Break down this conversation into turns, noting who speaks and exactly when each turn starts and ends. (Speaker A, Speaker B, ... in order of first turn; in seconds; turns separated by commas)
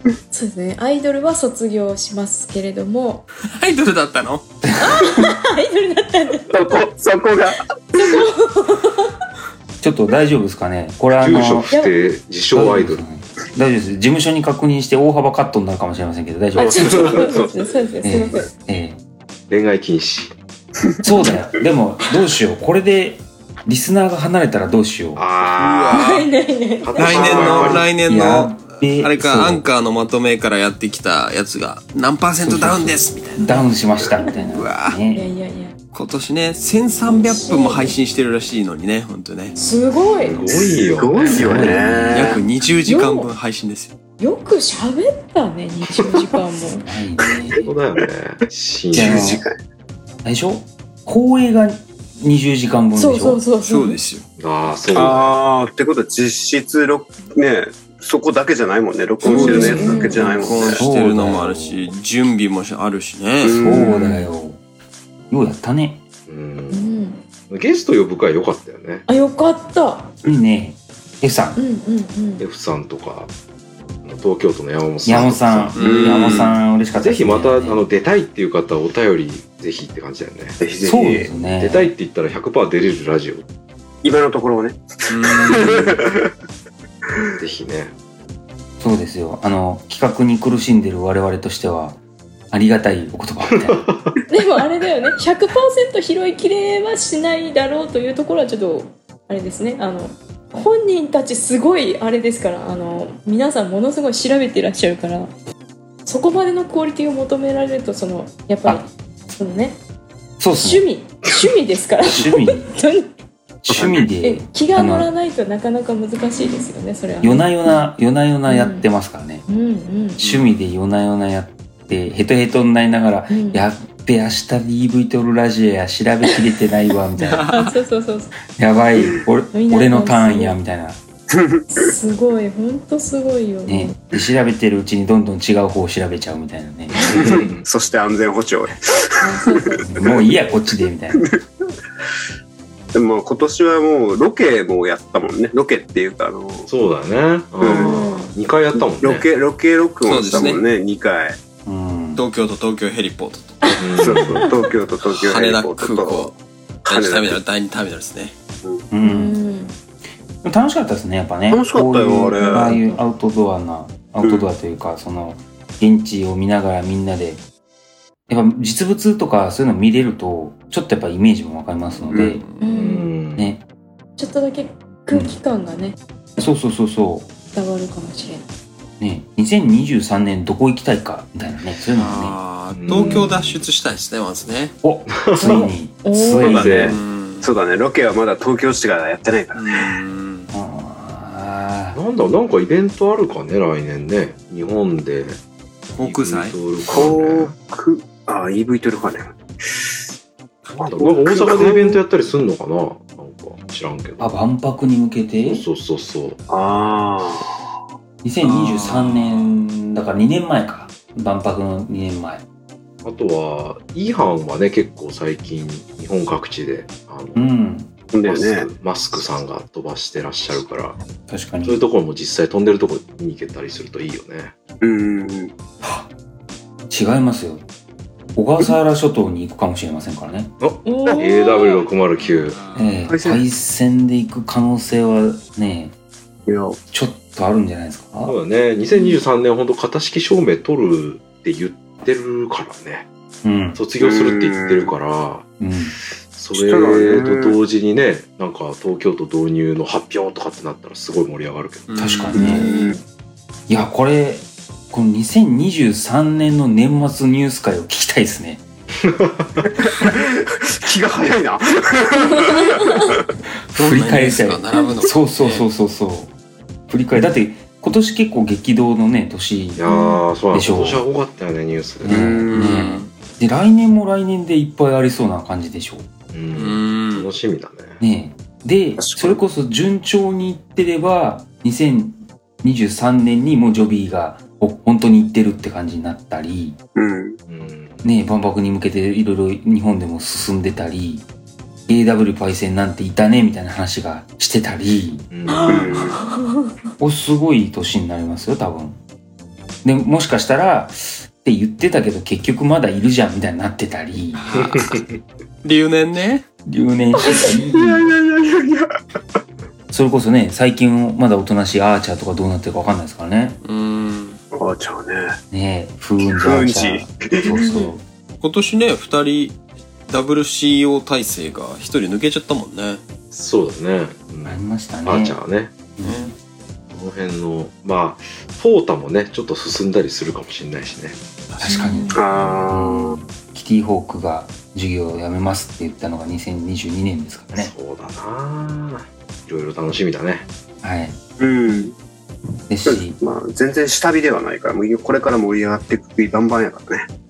Speaker A: 0.3-3.3, Speaker B: 3.5-4.5, Speaker C: 4.7-5.1, Speaker A: 4.8-6.5, Speaker D: 6.5-8.2, Speaker A: 8.0-9.1, Speaker C: 9.8-11.7, Speaker E: 11.2-13.0, Speaker A: 11.7-12.0, Speaker C: 12.5-17.2, Speaker A: 16.6-18.5, Speaker E: 16.7-17.6, Speaker D: 17.1-17.5, Speaker C: 18.0-19.0, Speaker E: 19.5-20.4, Speaker D: 20.9-21.4, Speaker C: 21.0-25.2, Speaker E: 25.1-26.3, Speaker D: 25.6-26.0, Speaker A: 25.9-27.7, Speaker E: 26.8-27.9, Speaker B: 27.0-33.7, Speaker D: 27.0-27.9, Speaker C: 28.1-29.6, Speaker C: 32.4-35.3, Speaker B: 34.5-35.0, Speaker A: 35.1-35.8, Speaker B: 35.9-39.6, Speaker A: 37.1-38.0, Speaker A: 39.6-40.4, Speaker E: 40.2-41.8, Speaker D: 40.4-42.5, Speaker B: 41.2-44.0, Speaker C: 41.3-42.4, Speaker A: 42.9-43.3, Speaker A: 44.2-46.9, Speaker E: 45.9-46.3, Speaker C: 46.8-47.7, Speaker E: 47.6-49.4, Speaker C: 48.9-49.4, Speaker D: 48.9-49.6, Speaker C: 50.2-53.4, Speaker A: 53.0-54.0, Speaker B: 53.6-54.2, Speaker E: 54.4-55.4, Speaker D: 54.9-60.8, Speaker A: 59.2-60.5, Speaker B: 59.3-63.7, Speaker C: 59.3-61.9, Speaker D: 63.4-64.0, Speaker C: 63.5-64.6, Speaker A: 63.7-64.3, Speaker C: 65.3-66.0, Speaker E: 66.3-66.9, Speaker A: 66.7-67.2, Speaker E: 67.5-69.1, Speaker A: 69.1-70.1, Speaker C: 70.2-71.6, Speaker A: 71.6-72.5, Speaker E: 72.4-73.3, Speaker E: 74.0-75.8, Speaker C: 75.0-77.8, Speaker B: 75.8-76.6, Speaker D: 75.8-76.6, Speaker E: 77.0-80.6, Speaker D: 80.6-81.3, Speaker C: 80.8-81.9, Speaker E: 81.4-83.5, Speaker D: 84.0-86.3, Speaker B: 85.1-86.0, Speaker E: 87.4-87.9, Speaker C: 88.8-92.0, Speaker C: 92.5-93.8, Speaker E: 93.5-94.2, Speaker A: 94.3-105.3, Speaker A: 106.1-109.8, Speaker C: 110.4-110.9, Speaker A: 110.5-113.1, Speaker C: 112.0-112.7, Speaker C: 113.6-115.1, Speaker D: 113.7-114.0, Speaker A: 114.2-117.9, Speaker C: 117.2-119.4, Speaker A: 118.5-118.9, Speaker A: 119.5-120.2, Speaker C: 120.2-127.6, Speaker B: 120.2-120.6, Speaker A: 123.3-123.6, Speaker B: 127.2-127.8, Speaker A: 127.5-128.3, Speaker C: 128.6-131.0, Speaker A: 129.5-130.6, Speaker D: 131.3-131.9, Speaker A: 131.8-134.0, Speaker C: 133.7-137.4, Speaker E: 136.9-137.7, Speaker D: 137.1-140.5, Speaker A: 139.2-139.8, Speaker C: 139.8-141.3, Speaker D: 141.2-141.4, Speaker D: 142.9-146.7, Speaker E: 146.7-149.3, Speaker D: 147.6-148.0, Speaker A: 147.6-148.3, Speaker D: 148.8-151.4, Speaker B: 150.1-150.6, Speaker C: 151.7-152.2, Speaker B: 152.2-154.2, Speaker A: 153.7-154.5, Speaker E: 153.8-154.6, Speaker D: 154.0-156.3, Speaker B: 155.0-158.3, Speaker D: 156.9-157.4, Speaker C: 158.9-159.4, Speaker A: 159.0-159.8, Speaker C: 160.4-167.4, Speaker D: 161.5-162.8, Speaker A: 162.2-163.0, Speaker D: 164.2-164.5, Speaker C: 168.3-172.4, Speaker B: 172.0-172.7, Speaker D: 172.1-172.4, Speaker A: 172.6-173.1, Speaker E: 172.7-173.6, Speaker C: 173.4-173.6, Speaker A: 174.2-176.0, Speaker C: 175.1-175.4, Speaker C: 176.4-177.3, Speaker A: 177.5-178.4, Speaker C: 179.0-182.4, Speaker B: 181.9-184.8, Speaker E: 182.7-183.7, Speaker C: 183.0-183.3, Speaker C: 184.8-186.9, Speaker E: 185.1-185.7, Speaker A: 185.4-186.7, Speaker D: 186.4-190.0, Speaker E: 186.4-187.0, Speaker B: 186.6-187.5, Speaker B: 189.6-190.5, Speaker C: 190.5-192.0, Speaker E: 191.9-195.4, Speaker B: 195.9-196.6, Speaker E: 196.0-197.6, Speaker D: 196.9-200.0, Speaker D: 200.8-202.0, Speaker E: 200.8-204.3, Speaker C: 204.2-205.6, Speaker E: 205.5-206.4, Speaker D: 206.5-207.6, Speaker C: 208.2-212.4, Speaker B: 208.4-209.6, Speaker E: 213.0-217.5, Speaker C: 217.3-217.9, Speaker D: 218.1-218.7, Speaker E: 218.2-221.0, Speaker C: 221.3-221.8, Speaker E: 221.6-224.5, Speaker D: 224.8-225.5, Speaker C: 226.9-227.6, Speaker C: 228.3-230.5, Speaker E: 230.6-232.6, Speaker A: 230.8-231.9, Speaker B: 232.2-233.1, Speaker C: 232.8-235.9, Speaker D: 233.1-233.4, Speaker D: 236.5-236.8, Speaker C: 236.9-238.4, Speaker E: 238.2-243.1, Speaker A: 238.9-239.2, Speaker C: 243.4-243.8, Speaker E: 243.8-245.5, Speaker D: 244.0-244.9, Speaker C: 245.6-245.9, Speaker E: 246.3-252.0, Speaker D: 246.5-247.6, Speaker B: 251.9-252.7, Speaker C: 252.0-252.7, Speaker D: 252.3-253.0, Speaker A: 252.3-253.0, Speaker C: 253.7-258.6, Speaker E: 259.0-259.5, Speaker D: 259.6-263.1, Speaker C: 263.7-266.3, Speaker B: 263.8-265.6, Speaker C: 266.9-269.9, Speaker E: 269.8-272.4, Speaker A: 269.9-270.2, Speaker C: 270.5-271.0, Speaker C: 272.0-276.1, Speaker D: 272.1-273.0, Speaker B: 272.5-273.1, Speaker E: 276.3-278.0, Speaker B: 276.5-277.3, Speaker C: 278.0-286.8, Speaker D: 279.0-279.4, Speaker D: 287.0-287.4, Speaker E: 287.5-288.1, Speaker C: 288.0-291.2, Speaker C: 291.9-295.3, Speaker E: 295.3-296.1, Speaker A: 295.5-296.7, Speaker D: 295.7-296.2, Speaker C: 297.0-299.0, Speaker C: 299.8-304.5, Speaker B: 304.4-304.9, Speaker E: 304.5-305.2, Speaker B: 305.6-306.5, Speaker C: 306.7-308.0, Speaker D: 307.4-308.9, Speaker C: 309.9-313.6, Speaker B: 313.6-314.4, Speaker D: 314.5-315.4, Speaker C: 315.5-318.0, Speaker D: 316.2-317.6, Speaker A: 317.5-317.9, Speaker B: 318.4-323.0, Speaker E: 323.3-325.8, Speaker C: 324.4-325.4, Speaker C: 326.0-326.3, Speaker B: 326.0-326.3, Speaker E: 326.9-331.2, Speaker C: 331.6-337.7, Speaker A: 331.7-332.2, Speaker D: 332.1-333.2, Speaker E: 332.3-332.7, Speaker E: 337.5-340.5, Speaker C: 340.8-341.2, Speaker D: 341.4-341.9, Speaker C: 342.7-343.2, Speaker D: 342.9-347.1